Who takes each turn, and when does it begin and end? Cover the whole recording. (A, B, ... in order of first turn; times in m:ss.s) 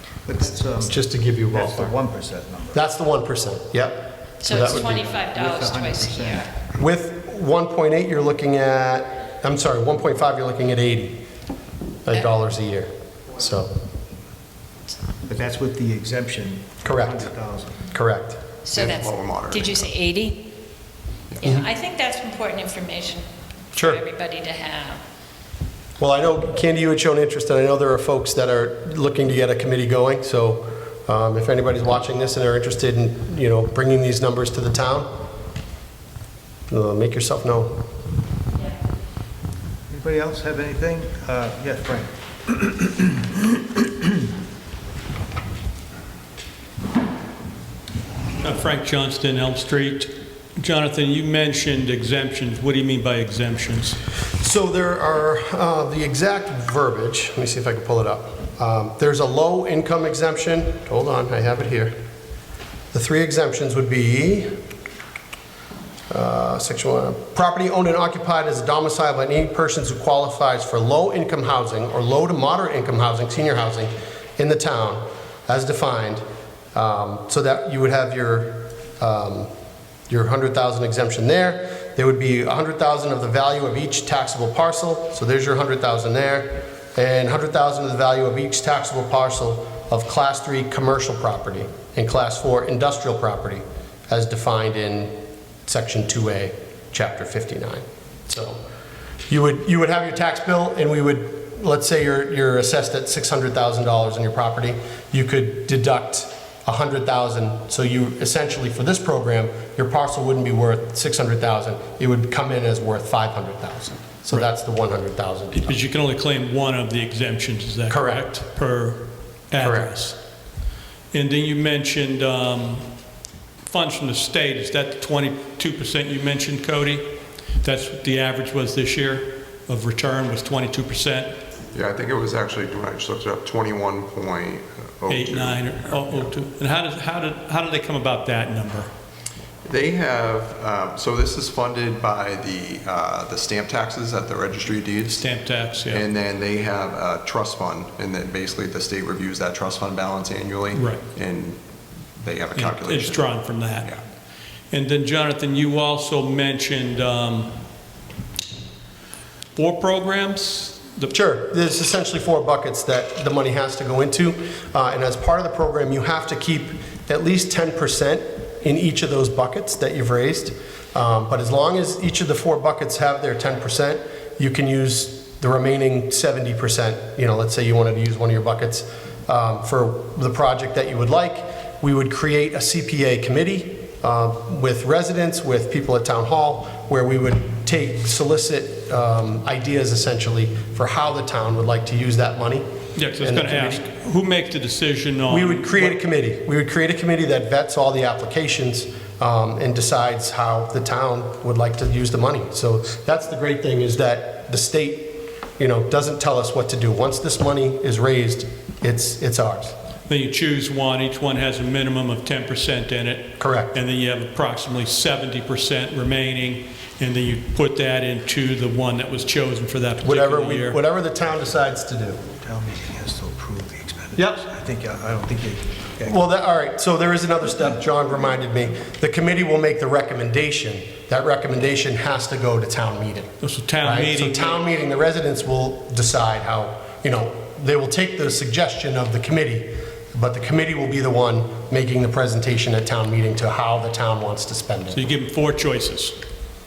0:00.2-0:02.8 A
0:00.8-0:01.9 B
0:02.7-0:05.1 B
0:04.4-0:06.5 C
0:04.7-0:06.5 A
0:06.8-0:11.2 B
0:12.0-0:13.7 B
0:15.2-0:17.9 A
0:16.8-0:17.2 B
0:17.9-0:18.4 B
0:18.6-0:20.4 C
0:18.7-0:19.9 D
0:21.3-0:21.6 D
0:21.5-0:23.2 C
0:23.8-0:24.0 B
0:23.9-0:25.0 C
0:26.0-0:35.1 B
0:36.7-0:37.8 B
0:39.9-0:43.9 A
0:48.4-0:54.0 E
0:54.4-1:01.9 B
1:02.9-1:04.5 B
1:06.1-1:16.2 B
1:16.7-1:19.5 B
1:20.1-1:35.1 B
1:35.6-1:38.6 B
1:39.3-1:55.8 B
1:55.6-2:00.2 E
1:57.9-1:58.2 B
1:59.5-2:00.0 B
2:01.1-2:02.8 E
2:03.6-2:07.0 E
2:07.6-2:11.3 E
2:11.7-2:16.3 D
2:15.1-2:18.9 E
2:19.6-2:25.3 D
2:25.2-2:26.0 E
2:25.9-2:31.6 D
2:30.7-2:31.0 E
2:32.2-2:33.3 D
2:32.5-2:33.9 E
2:34.7-2:37.5 E
2:39.6-2:41.1 E
2:41.1-3:12.6 B
3:13.0-3:16.0 E
3:13.2-3:13.8 B
3:15.3-3:29.7 B
3:30.1-3:40.8 E
3:33.4-3:33.8 B
3:40.0-3:42.2 B
3:42.4-3:46.2 A
3:44.2-3:44.4 B
3:46.0-3:53.3 B
3:53.4-3:54.6 E
3:53.8-4:05.1 B
4:04.9-4:06.2 E